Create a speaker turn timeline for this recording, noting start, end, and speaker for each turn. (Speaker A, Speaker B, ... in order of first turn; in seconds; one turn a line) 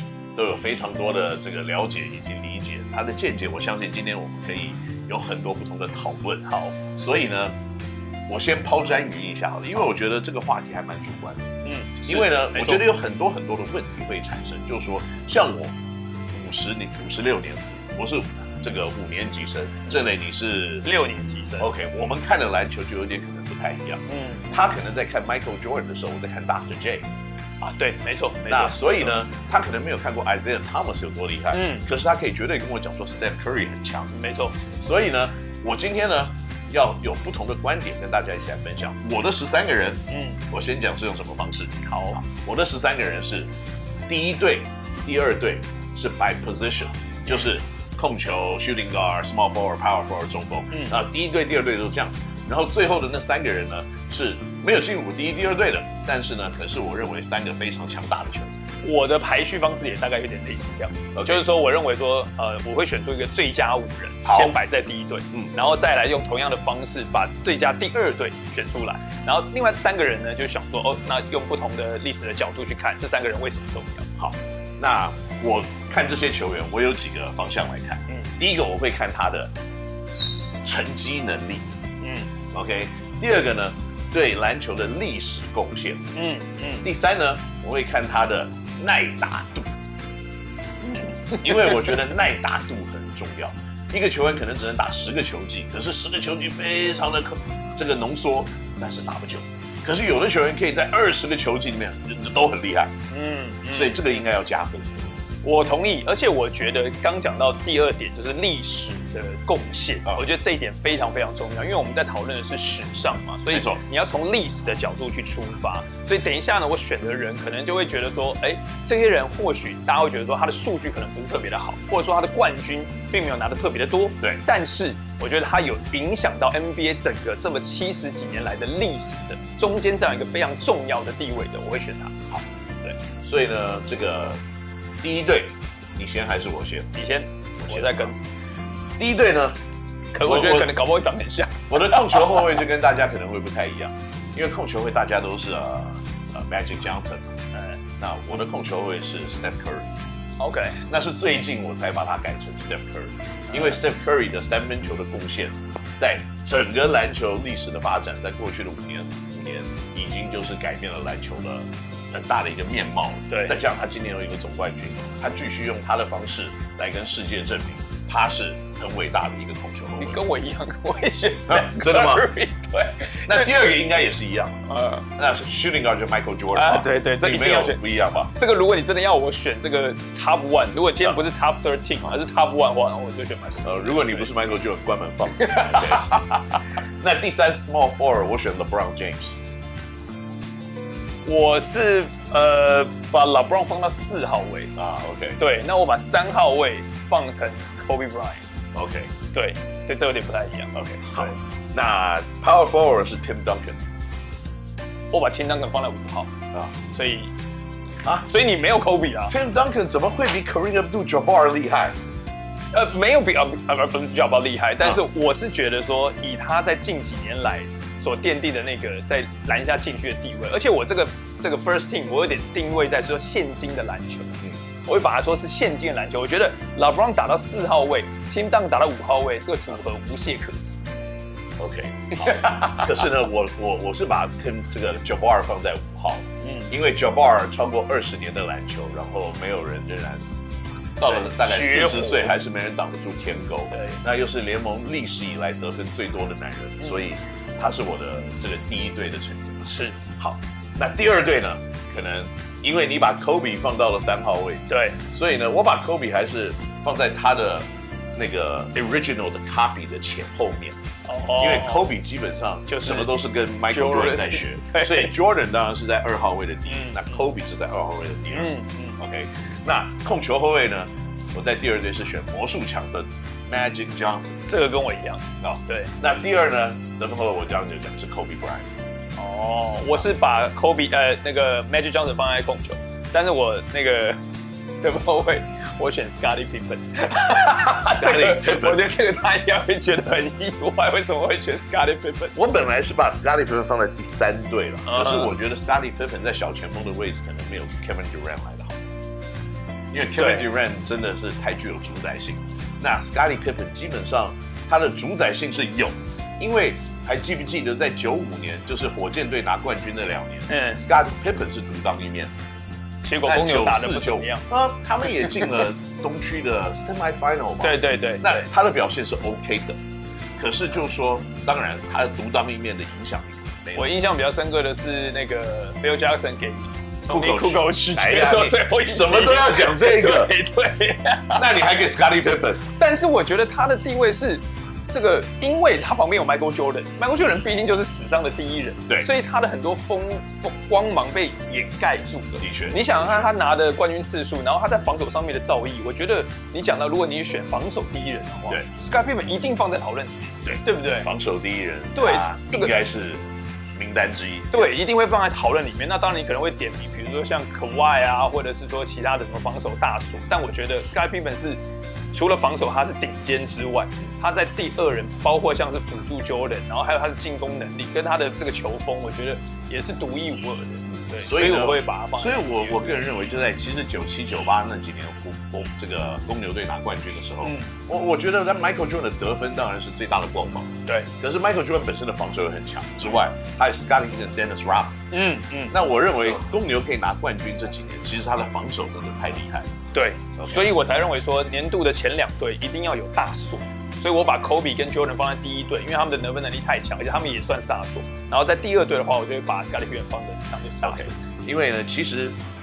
Speaker A: 0.4-7.5
Speaker A: 8.3-11.4
Speaker B: 11.6-12.9
Speaker A: 12.0-15.8
Speaker A: 16.3-20.9
Speaker B: 20.8-21.7
Speaker A: 21.6-27.1
Speaker B: 24.1-24.6
Speaker B: 27.6-29.2
Speaker A: 28.5-34.1
Speaker B: 31.5-31.9
Speaker B: 34.1-34.6
Speaker A: 34.7-43.5
Speaker B: 40.1-40.4
Speaker B: 41.8-42.2
Speaker A: 44.1-58.5
Speaker B: 50.7-51.0
Speaker B: 58.8-74.1
Speaker A: 61.1-61.4
Speaker A: 64.2-64.5
Speaker A: 74.2-79.5
Speaker A: 80.6-81.6
Speaker B: 82.0-82.3
Speaker A: 82.5-86.0
Speaker B: 86.1-86.9
Speaker A: 86.8-89.7
Speaker B: 90.8-92.0
Speaker A: 91.4-102.9
Speaker B: 103.1-104.0
Speaker A: 103.7-105.1
Speaker B: 105.4-132.2
Speaker A: 113.5-113.8
Speaker A: 133.2-134.4
Speaker A: 135.0-136.9
Speaker B: 136.9-138.2
Speaker A: 137.6-138.1
Speaker A: 139.0-139.6
Speaker B: 140.1-142.6
Speaker A: 140.2-140.7
Speaker A: 141.7-147.3
Speaker A: 148.0-149.9
Speaker B: 150.4-150.8
Speaker A: 150.8-170.2
Speaker B: 153.5-153.8
Speaker B: 163.3-163.6
Speaker B: 170.0-173.6
Speaker A: 171.5-172.3
Speaker A: 173.3-174.6
Speaker B: 174.7-175.1
Speaker A: 175.2-178.3
Speaker B: 176.5-184.3
Speaker A: 183.6-186.2
Speaker B: 185.4-186.6
Speaker A: 187.0-189.4
Speaker B: 191.2-194.7
Speaker A: 194.8-195.4
Speaker B: 195.4-198.4
Speaker A: 198.7-199.1
Speaker B: 199.3-201.4
Speaker A: 200.8-203.8
Speaker B: 205.1-206.3
Speaker B: 206.9-207.3
Speaker A: 208.0-208.4
Speaker B: 208.3-209.3
Speaker A: 209.3-212.0
Speaker B: 212.7-230.8
Speaker A: 231.6-240.2
Speaker B: 232.2-233.0
Speaker B: 236.4-236.7
Speaker A: 241.0-260.8
Speaker B: 241.1-242.4
Speaker B: 243.7-244.0
Speaker B: 246.8-247.1
Speaker B: 249.7-250.0
Speaker B: 254.7-255.0
Speaker B: 261.0-261.9
Speaker A: 261.4-274.4
Speaker B: 262.7-263.1
Speaker B: 263.7-265.1
Speaker B: 266.7-267.2
Speaker B: 268.3-269.0
Speaker B: 274.5-275.9
Speaker A: 275.4-278.7
Speaker B: 279.2-284.2
Speaker B: 284.8-292.4
Speaker A: 287.6-288.9
Speaker A: 292.4-298.8
Speaker B: 294.9-295.3
Speaker A: 299.9-312.3
Speaker B: 300.1-300.5
Speaker B: 310.5-310.9
Speaker B: 313.0-314.5
Speaker A: 313.2-319.8
Speaker B: 315.2-315.5
Speaker B: 317.6-318.5
Speaker A: 320.4-323.9
Speaker B: 323.8-331.4
Speaker A: 327.1-330.3
Speaker A: 331.4-332.6
Speaker B: 332.7-351.1
Speaker A: 342.4-343.3
Speaker A: 350.5-353.2
Speaker B: 351.9-352.8
Speaker A: 353.8-354.9
Speaker B: 354.5-361.6
Speaker B: 362.1-373.0
Speaker A: 371.2-385.0
Speaker B: 377.4-377.7
Speaker B: 385.1-385.8
Speaker A: 385.7-389.7
Speaker B: 389.9-401.1
Speaker A: 390.4-390.8
Speaker A: 400.8-402.4